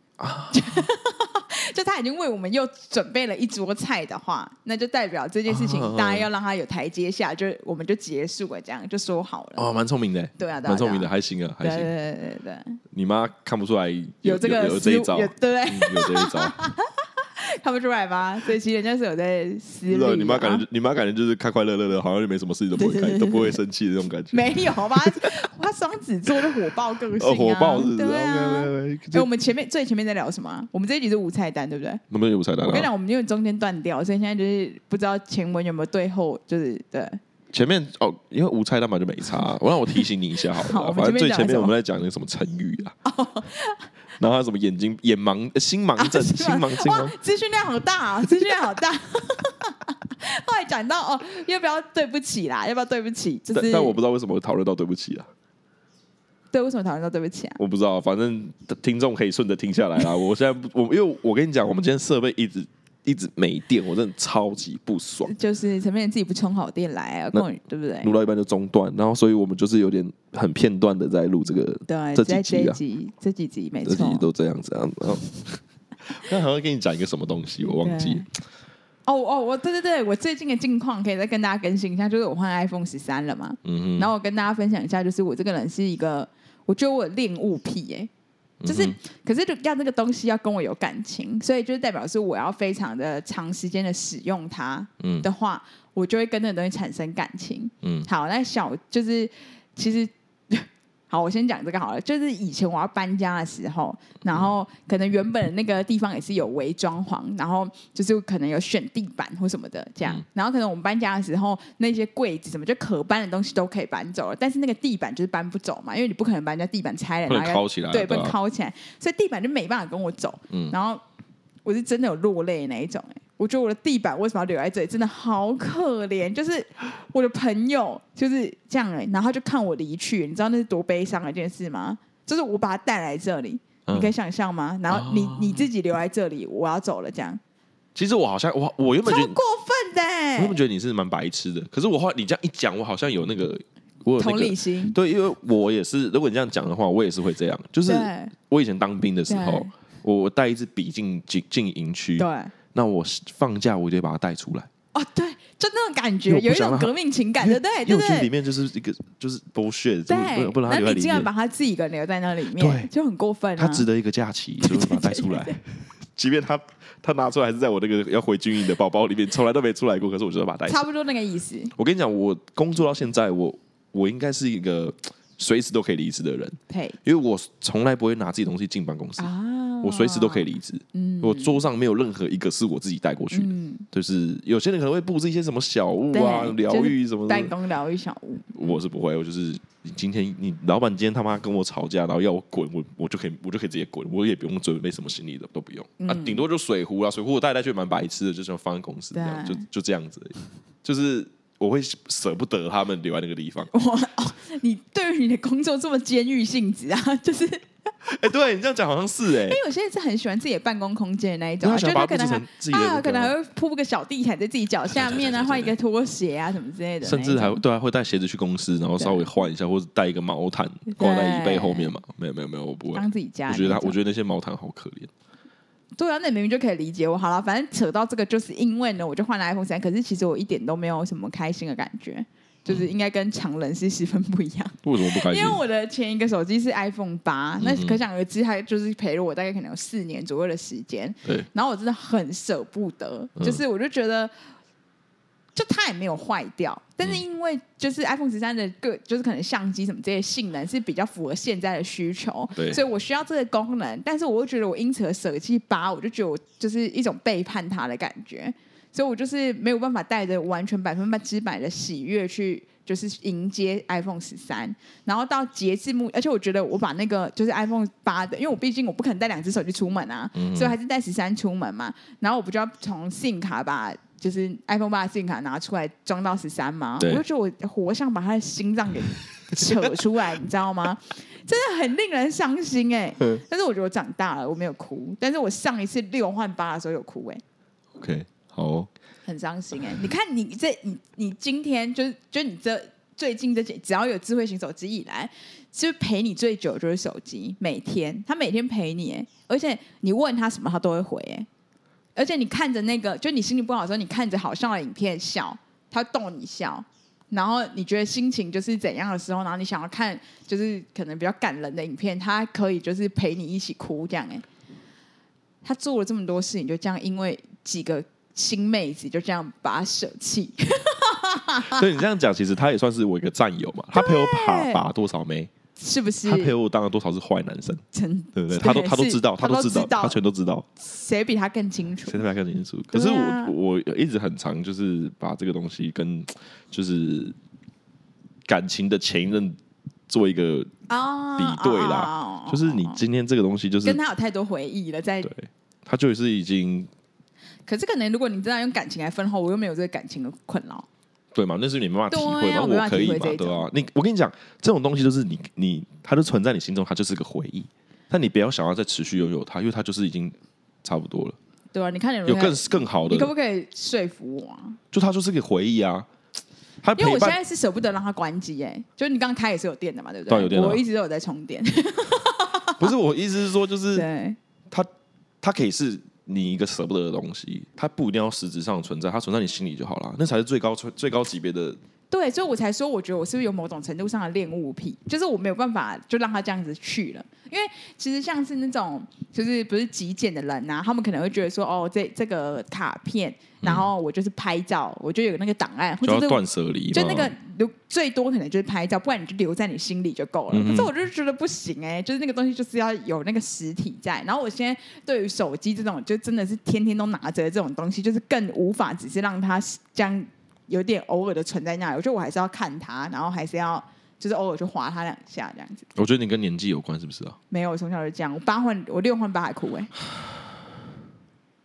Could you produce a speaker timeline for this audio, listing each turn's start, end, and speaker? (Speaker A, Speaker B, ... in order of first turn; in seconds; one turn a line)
Speaker A: 0.2-0.9
Speaker B: 0.5-9.7
Speaker A: 5.5-6.3
Speaker A: 9.6-11.9
Speaker B: 10.4-11.1
Speaker B: 11.6-12.8
Speaker A: 12.9-16.6
Speaker B: 14.2-20.6
Speaker A: 19.9-25.4
Speaker B: 22.8-23.6
Speaker B: 24.3-32.0
Speaker A: 27.2-29.3
Speaker A: 32.1-32.9
Speaker B: 32.6-37.2
Speaker A: 37.5-43.0
Speaker B: 40.5-41.7
Speaker B: 43.0-43.9
Speaker A: 44.2-47.1
Speaker B: 46.0-54.0
Speaker A: 53.5-55.3
Speaker B: 56.5-57.6
Speaker A: 57.6-65.3
Speaker B: 65.2-68.1
Speaker A: 68.0-72.8
Speaker B: 71.9-74.2
Speaker A: 73.8-78.2
Speaker B: 77.6-78.2
Speaker B: 79.0-88.1
Speaker A: 83.6-84.1
Speaker A: 88.6-89.0
Speaker B: 88.7-121.0
Speaker A: 95.0-95.3
Speaker A: 97.8-98.1
Speaker A: 117.3-118.3
Speaker A: 120.5-120.8
Speaker B: 121.6-137.4
Speaker A: 133.9-134.1
Speaker A: 134.9-135.7
Speaker A: 137.9-139.4
Speaker B: 139.0-140.6
Speaker A: 140.4-154.7
Speaker B: 144.2-145.0
Speaker B: 147.8-148.3
Speaker B: 149.3-149.7
Speaker B: 152.2-152.5
Speaker B: 154.9-158.3
Speaker A: 156.3-161.3
Speaker B: 160.1-163.9
Speaker A: 162.6-162.9
Speaker A: 163.6-170.8
Speaker B: 164.6-165.6
Speaker B: 170.7-171.7
Speaker A: 171.7-179.3
Speaker B: 176.7-177.0
Speaker B: 179.2-181.7
Speaker A: 179.8-187.5
Speaker B: 183.3-183.9
Speaker B: 186.1-188.8
Speaker A: 188.5-203.7
Speaker B: 196.0-196.4
Speaker B: 199.1-199.6
Speaker B: 203.7-207.7
Speaker A: 208.0-209.6
Speaker B: 209.4-217.6
Speaker A: 211.6-213.3
Speaker A: 214.9-215.7
Speaker A: 217.0-225.1
Speaker B: 219.0-219.3
Speaker B: 220.9-221.9
Speaker B: 222.9-224.0
Speaker B: 225.9-244.3
Speaker A: 234.8-235.6
Speaker A: 237.6-238.0
Speaker A: 243.4-243.6
Speaker B: 245.5-287.4
Speaker A: 252.6-252.8
Speaker A: 270.3-270.7
Speaker A: 279.3-279.9
Speaker A: 288.0-288.9
Speaker B: 289.2-301.5
Speaker B: 302.1-314.4
Speaker B: 315.6-321.9
Speaker A: 321.7-325.5
Speaker B: 323.9-324.8
Speaker B: 325.8-326.5
Speaker A: 326.2-327.8
Speaker B: 327.9-330.2
Speaker A: 328.3-330.7
Speaker B: 330.8-332.2
Speaker A: 332.1-337.4
Speaker B: 332.9-333.5
Speaker A: 338.5-339.6
Speaker A: 340.1-340.7
Speaker B: 340.9-343.0
Speaker A: 341.4-344.0
Speaker B: 343.8-345.3
Speaker A: 345.2-346.9
Speaker B: 347.6-350.9
Speaker A: 351.3-361.4
Speaker B: 352.1-353.7
Speaker B: 361.7-364.8
Speaker A: 362.2-363.3
Speaker A: 364.9-366.1
Speaker A: 366.8-367.4
Speaker B: 366.9-372.9
Speaker A: 370.3-370.8
Speaker A: 372.8-374.1
Speaker B: 373.9-374.4
Speaker A: 375.4-381.8
Speaker B: 382.1-415.9
Speaker A: 393.6-393.9
Speaker A: 396.0-397.3
Speaker A: 400.5-400.9
Speaker A: 415.9-417.4
Speaker B: 417.5-419.9